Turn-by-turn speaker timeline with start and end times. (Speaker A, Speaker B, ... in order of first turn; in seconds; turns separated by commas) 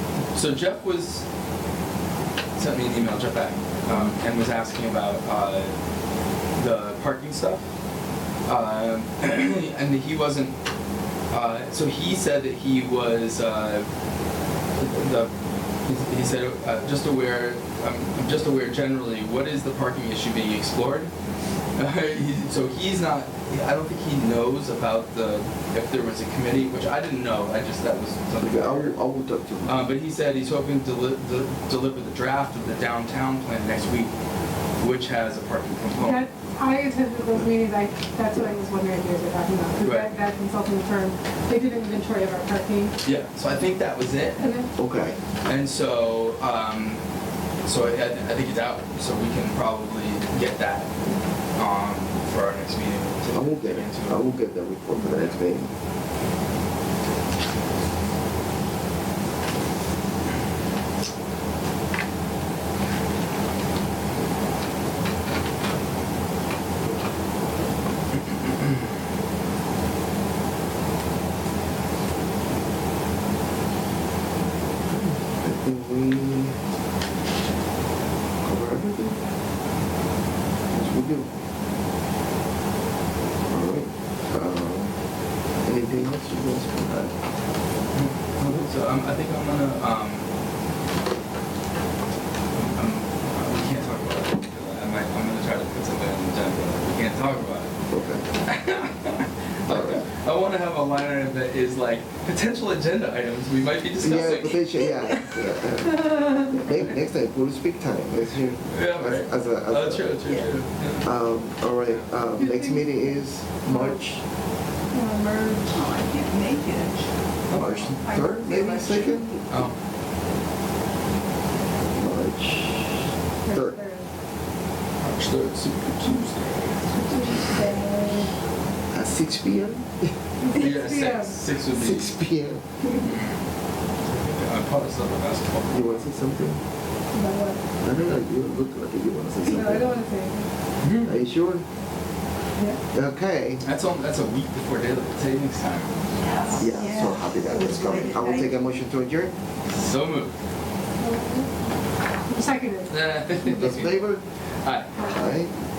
Speaker A: 0.3-1.2, Speaker A: 2.6-5.8, Speaker A: 6.6-7.7, Speaker A: 8.5-10.6, Speaker A: 11.3-13.9, Speaker A: 14.8-15.3, Speaker A: 15.8-21.1, Speaker A: 21.8-29.0, Speaker B: 28.4-29.8, Speaker A: 29.6-34.1, Speaker A: 34.8-36.3, Speaker C: 36.0-43.0, Speaker A: 39.8-40.1, Speaker A: 43.0-44.5, Speaker C: 44.4-44.7, Speaker B: 44.8-45.2, Speaker A: 45.5-47.0, Speaker A: 47.6-50.9, Speaker A: 51.5-54.4, Speaker B: 53.3-55.7, Speaker A: 55.0-55.5, Speaker B: 74.9-76.6, Speaker B: 78.4-79.2, Speaker B: 80.7-81.3, Speaker B: 83.5-85.0, Speaker B: 85.6-87.2, Speaker A: 87.9-90.3, Speaker A: 92.5-97.7, Speaker B: 97.9-98.2, Speaker A: 98.4-104.7, Speaker B: 99.7-100.1, Speaker B: 104.0-110.2, Speaker A: 108.7-111.1, Speaker B: 111.0-114.2, Speaker A: 111.9-112.4, Speaker C: 112.4-113.0, Speaker C: 113.7-114.0, Speaker C: 114.9-115.6, Speaker D: 115.2-117.1, Speaker A: 117.5-118.0, Speaker B: 117.5-119.3, Speaker D: 117.9-119.6, Speaker A: 119.5-119.7, Speaker B: 121.9-123.8, Speaker C: 123.4-124.1, Speaker A: 125.0-126.9, Speaker C: 126.9-128.3, Speaker D: 127.1-127.8, Speaker B: 128.9-130.1, Speaker C: 130.4-131.3, Speaker A: 130.5-132.2, Speaker B: 131.8-132.6, Speaker A: 133.0-133.3, Speaker A: 134.1-136.1, Speaker B: 135.7-136.6, Speaker C: 137.1-137.6, Speaker B: 137.8-140.0, Speaker C: 139.5-140.5, Speaker A: 140.8-141.1, Speaker B: 141.0-141.7, Speaker B: 142.9-143.6, Speaker A: 143.6-146.0, Speaker D: 146.2-148.6, Speaker C: 146.5-146.7, Speaker B: 146.6-149.3, Speaker A: 149.7-150.4, Speaker C: 151.0-151.5, Speaker C: 152.3-153.0, Speaker A: 152.9-154.0, Speaker B: 153.5-154.2, Speaker A: 154.6-154.9, Speaker B: 155.1-155.5